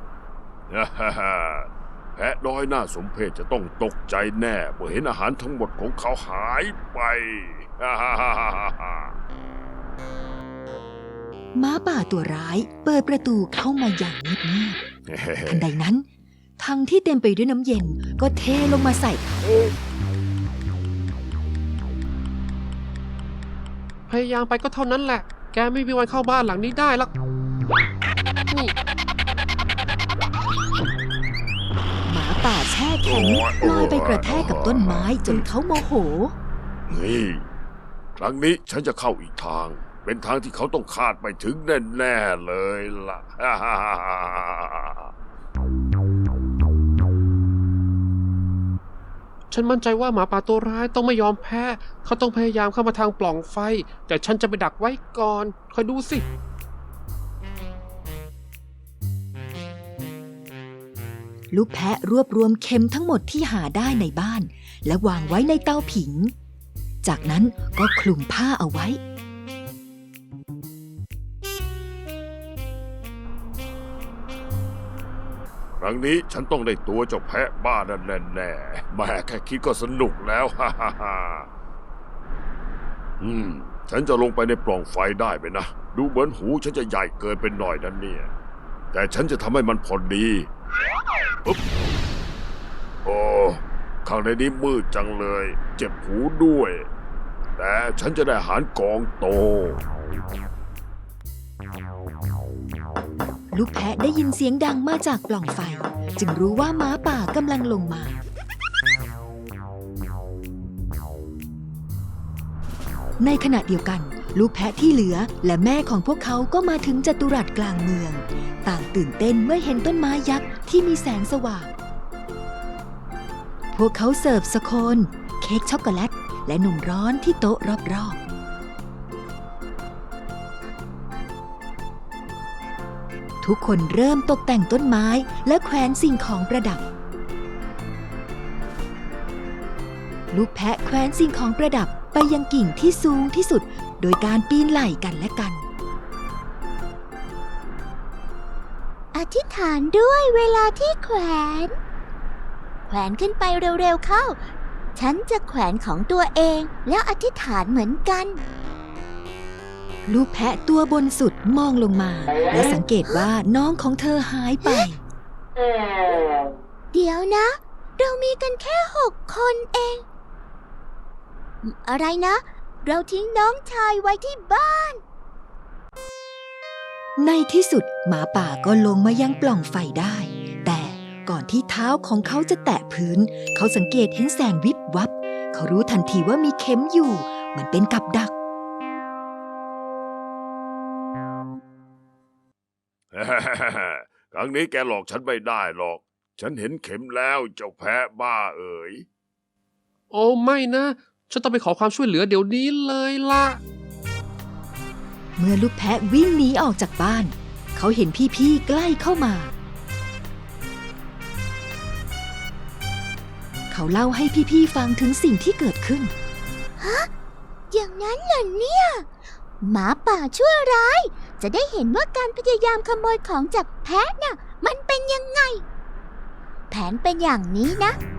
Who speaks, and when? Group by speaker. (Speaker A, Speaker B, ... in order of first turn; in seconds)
Speaker A: 0.7-9.1, 15.1-15.7, 33.0-35.4, 36.9-37.5, 38.2-45.1, 75.8-81.5, 83.2-88.3, 88.9-90.5, 93.0-96.9, 97.6-99.8, 193.1-199.1
Speaker B: 11.6-14.8, 15.5-16.1, 16.6-19.4, 32.1-36.4, 61.5-66.3, 67.0-69.0, 103.5-108.2, 113.2-121.7, 123.7-128.2, 133.4-136.8, 140.3-145.6, 160.1-165.0, 177.2-188.3, 205.4-209.5, 213.7-216.1
Speaker C: 24.1-27.1, 49.5-56.2, 200.1-203.6
Speaker D: 149.1-151.7, 152.9-154.4, 155.0-158.4, 166.9-170.0, 171.6-175.0, 216.8-217.1, 217.7-219.1, 219.6-225.6, 226.7-228.0